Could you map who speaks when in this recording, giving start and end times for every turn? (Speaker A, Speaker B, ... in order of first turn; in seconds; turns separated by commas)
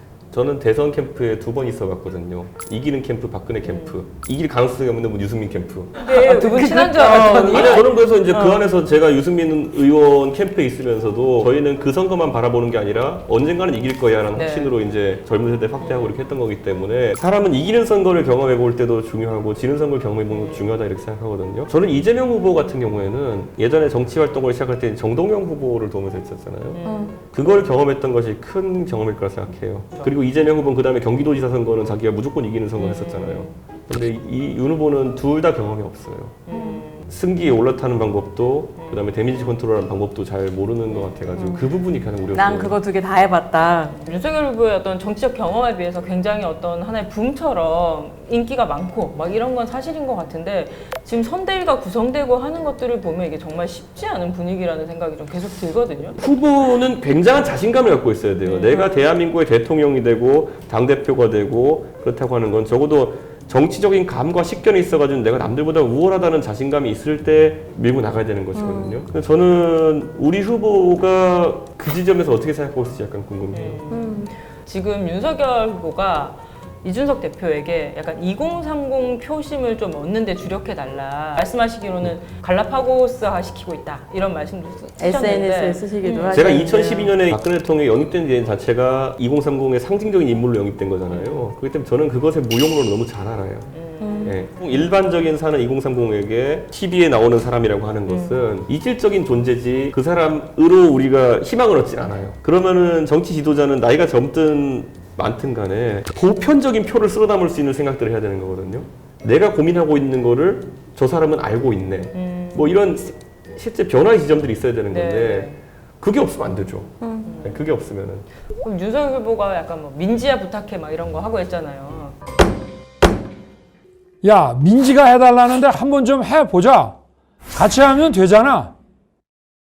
Speaker A: 0.3-6.1, Speaker B: 3.6-4.0, Speaker B: 6.0-7.9, Speaker C: 6.0-8.7, Speaker A: 6.9-26.8, Speaker B: 14.3-14.7, Speaker B: 15.8-16.2, Speaker B: 20.3-20.7, Speaker B: 26.7-27.1, Speaker C: 26.8-27.1, Speaker A: 27.3-36.4, Speaker B: 32.8-33.5, Speaker B: 36.5-37.1, Speaker C: 36.5-36.8, Speaker A: 37.1-42.8, Speaker B: 38.8-39.0, Speaker B: 40.9-41.2, Speaker C: 41.3-41.7, Speaker C: 42.3-44.0, Speaker B: 44.0-56.2, Speaker A: 56.2-73.8, Speaker B: 58.5-58.9, Speaker C: 68.5-69.0, Speaker B: 73.5-86.6, Speaker C: 73.9-74.3, Speaker C: 85.0-87.2, Speaker A: 86.3-93.7, Speaker B: 91.1-91.5, Speaker B: 93.7-94.4, Speaker C: 94.0-94.4, Speaker A: 94.2-118.3, Speaker B: 98.1-98.5, Speaker B: 112.1-112.7, Speaker B: 114.9-115.6, Speaker C: 117.0-117.3, Speaker B: 117.2-117.6, Speaker B: 118.6-122.2, Speaker D: 124.2-127.0, Speaker D: 127.5-128.7